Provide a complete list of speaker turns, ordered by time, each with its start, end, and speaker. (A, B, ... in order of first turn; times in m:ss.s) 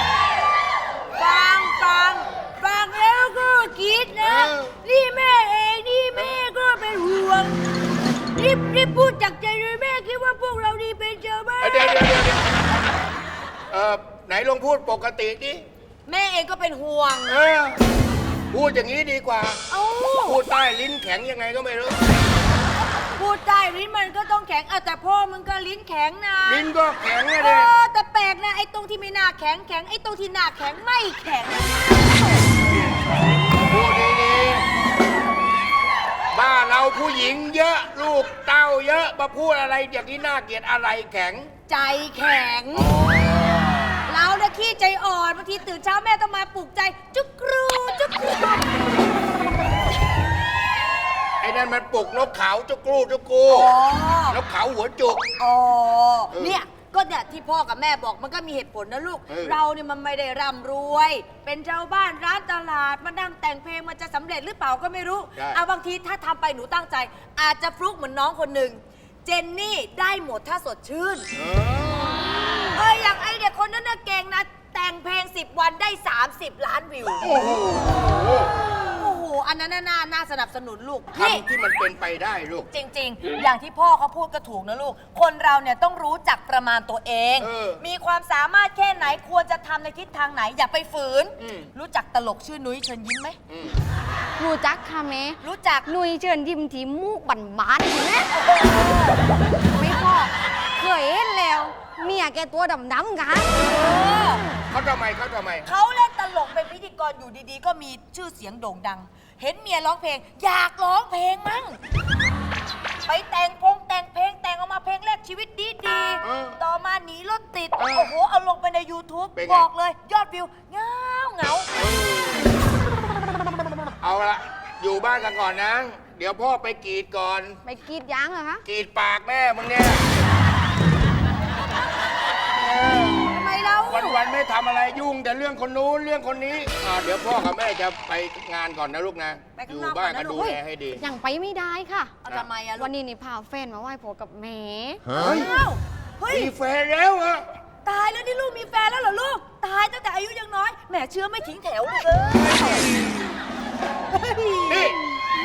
0:01.2-0:07.6 A
0:04.2-0:04.7 B
0:08.4-0:12.2 A
0:11.6-0:12.4 B
0:13.7-0:15.6 B
0:16.1-0:17.4 A
0:17.3-0:17.8 B
0:18.5-0:19.6 B
0:19.7-0:20.4 A
0:20.2-0:22.0 B
0:23.1-0:26.7 A
0:26.5-0:27.7 B
0:27.4-0:32.4 A
0:33.7-0:34.7 B
0:36.3-0:41.5 B
0:41.7-0:42.9 A
0:42.7-0:44.0 B
0:44.1-0:49.0 A
0:51.4-0:53.7 B
0:53.5-0:54.4 A
0:54.3-0:55.2 B
0:55.4-1:11.3 A
0:56.3-0:56.6 B
0:59.3-0:59.6 B
1:05.4-1:05.6 B
1:11.4-1:12.6 B
1:12.7-1:17.6 A
1:17.2-1:18.5 B
1:18.9-1:21.5 A
1:21.1-1:22.7 B
1:22.7-1:33.4 A
1:27.4-1:27.8 B
1:31.4-1:31.7 B
1:33.5-1:33.8 B
1:34.4-1:38.3 C
1:35.4-1:35.9 A
1:38.5-1:39.2 A
1:39.7-1:44.4 C
1:43.6-1:44.5 A
1:44.7-1:45.7 B
1:45.6-1:51.8 A
1:53.1-2:01.7 A
1:56.2-1:56.6 B
1:57.8-1:58.1 B
1:59.4-1:59.7 B
2:01.8-2:02.5 B
2:04.0-2:07.6 B
2:07.6-2:08.6 C
2:08.6-2:10.0 B
2:12.6-2:13.3 B
2:13.3-2:14.2 A
2:13.8-2:21.0 B
2:19.6-2:20.6 A
2:20.4-2:22.2 C
2:22.2-2:22.9 A
2:22.8-2:25.3 C
2:25.2-2:25.5 B
2:25.2-2:26.5 A
2:26.3-2:27.4 B
2:27.8-2:32.9 A
2:34.1-2:35.0 A
2:34.7-2:35.0 B